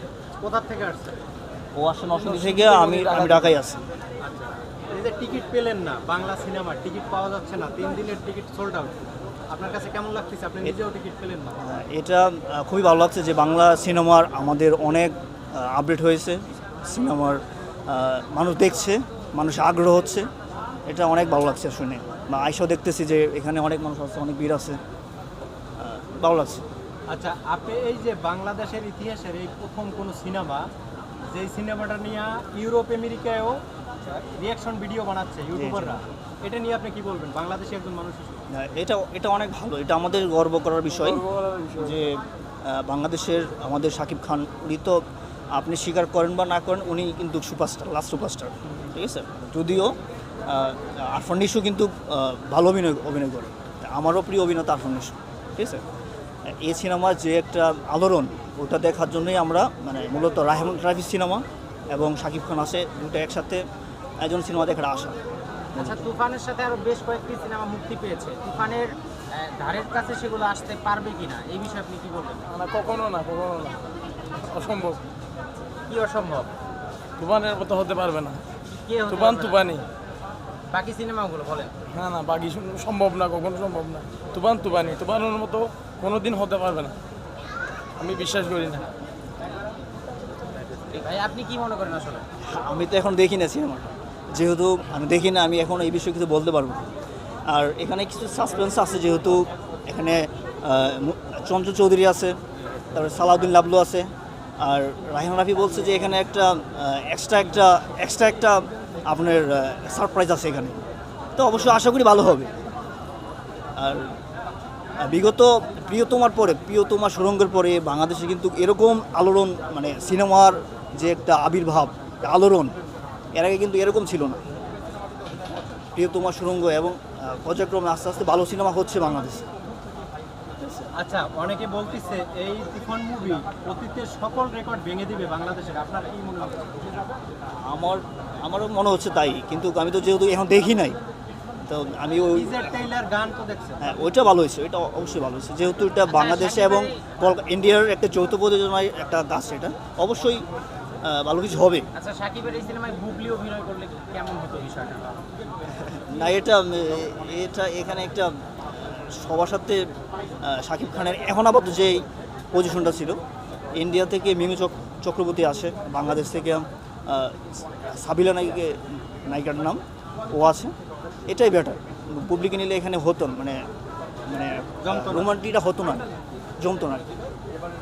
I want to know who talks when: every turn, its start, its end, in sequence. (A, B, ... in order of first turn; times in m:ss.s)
0:00.4-0:01.2 A
0:01.8-0:03.8 B
0:02.2-0:03.6 C
0:04.2-0:11.6 A
0:11.6-0:20.3 B
0:20.9-0:24.8 B
0:25.8-0:26.6 B
0:27.1-0:30.7 A
0:31.3-0:33.6 A
0:34.2-0:38.5 A
0:35.6-0:36.0 B
0:38.5-0:45.0 B
0:41.3-0:41.9 C
0:45.5-0:55.8 B
0:56.5-1:03.6 B
1:04.2-1:05.2 B
1:05.8-1:06.1 B
1:05.8-1:12.5 D
1:12.5-1:15.0 C
1:15.9-1:16.5 D
1:17.2-1:18.4 C
1:18.8-1:19.7 D
1:19.1-1:19.8 C
1:20.7-1:21.8 D
1:21.9-1:27.0 C
1:28.0-1:28.9 C
1:30.8-1:32.3 D
1:32.4-1:36.8 B
1:37.5-1:42.4 B
1:42.9-1:50.8 B
1:51.4-1:52.5 B
1:53.8-1:54.1 B
1:55.0-2:02.8 B
2:03.4-2:04.4 B
2:06.0-2:09.4 B
2:10.6-2:10.9 B
2:11.0-2:16.8 A
2:17.7-2:21.0 B
2:21.6-2:22.6 B
2:22.3-2:23.8 A
2:23.8-2:30.4 B
2:26.1-2:27.0 D
2:31.0-2:31.9 B
2:31.9-2:35.2 D
2:35.7-2:38.4 B
2:38.9-2:39.9 B
2:40.4-2:43.2 B
2:43.8-2:50.7 B
2:51.3-2:53.6 B
2:54.3-2:56.1 B
2:54.8-2:55.3 A
2:56.6-2:57.0 B